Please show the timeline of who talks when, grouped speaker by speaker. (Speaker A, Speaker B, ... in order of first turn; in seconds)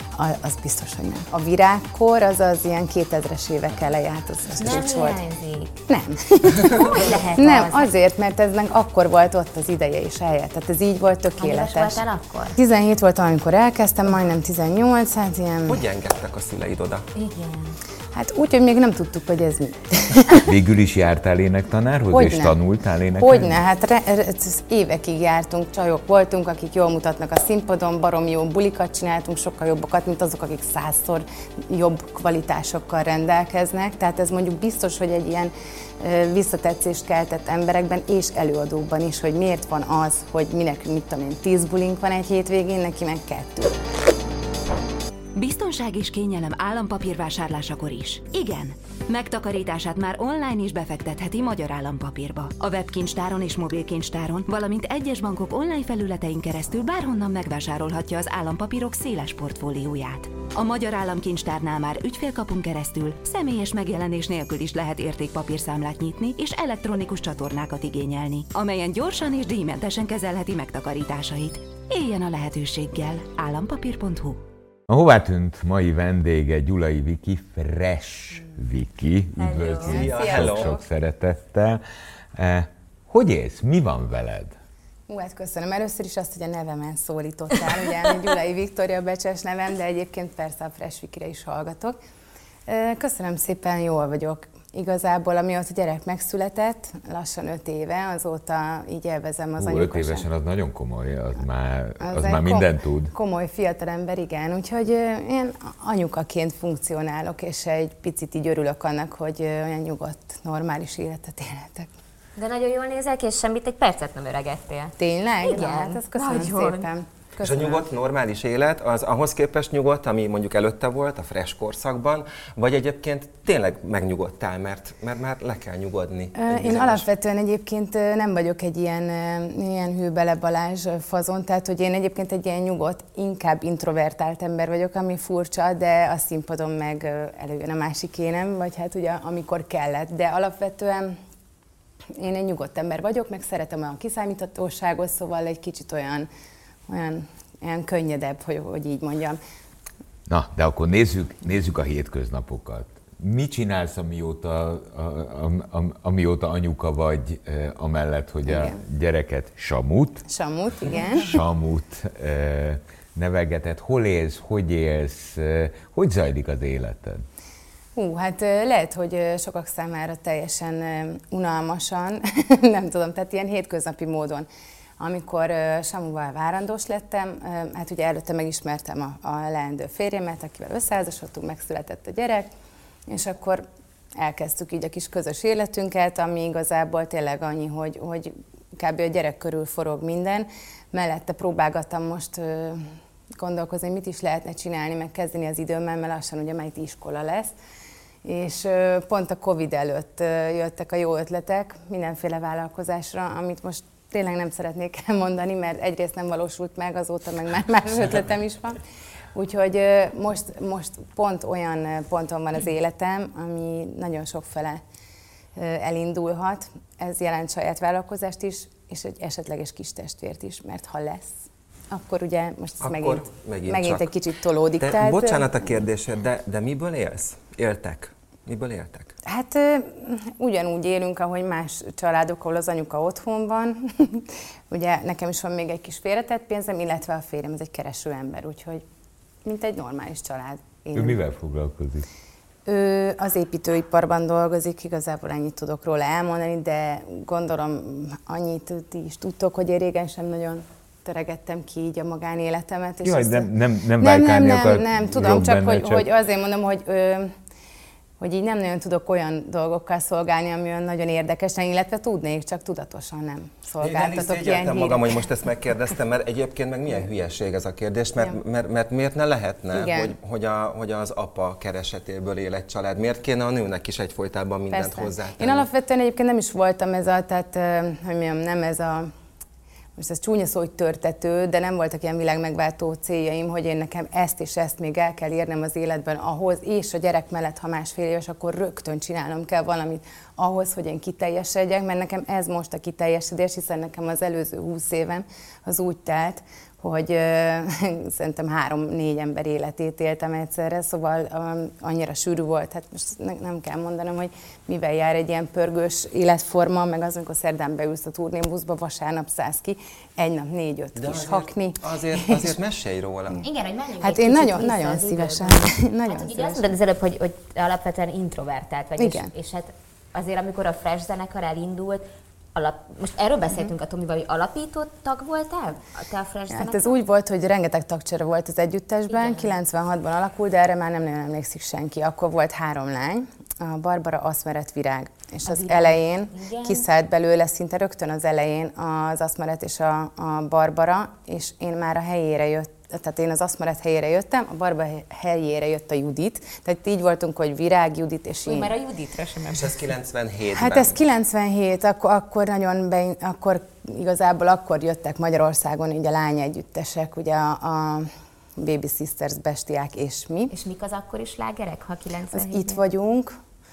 Speaker A: 0.1-5.2, 5.9-15.8, 18.1-20.5, 22.1-22.6, 23.2-43.8, 79.8-80.8, 85.1-92.0, 92.7-100.3, 102.0-111.9, 115.0-117.9, 126.3-141.2, 142.2-146.3, 146.9-149.4, 158.5-158.8, 160.3-161.4, 168.0-174.5, 175.0-182.5, 183.1-183.7, 184.2-197.5, 198.2-208.8, 209.3-214.8, 215.6-221.3, 221.9-225.7, 229.3-238.8, 239.4-241.2, 242.7-257.3, 258.2-265.2, 269.7-270.1, 274.7-279.1, 280.0-312.6, 314.0-316.7, 319.0-319.3, 326.5-348.7, 350.5-360.5, 362.3-363.3
Speaker B: 4.6-5.7, 6.7-7.9, 11.4-12.6, 17.1-17.7, 79.4-79.9, 112.4-116.9, 313.4-327.0, 329.1-329.6, 335.4-336.9, 348.5-349.7, 360.5-362.8
Speaker C: 15.7-17.1, 79.8-80.8, 117.4-127.0, 222.8-224.1, 224.8-229.1, 263.8-275.7, 311.0-313.4, 349.5-351.0
Speaker D: 20.4-23.6, 74.9-81.8, 82.3-84.6, 99.6-103.1, 150.3-160.2, 161.2-167.2, 240.9-242.1, 253.0-256.1
Speaker E: 45.4-74.4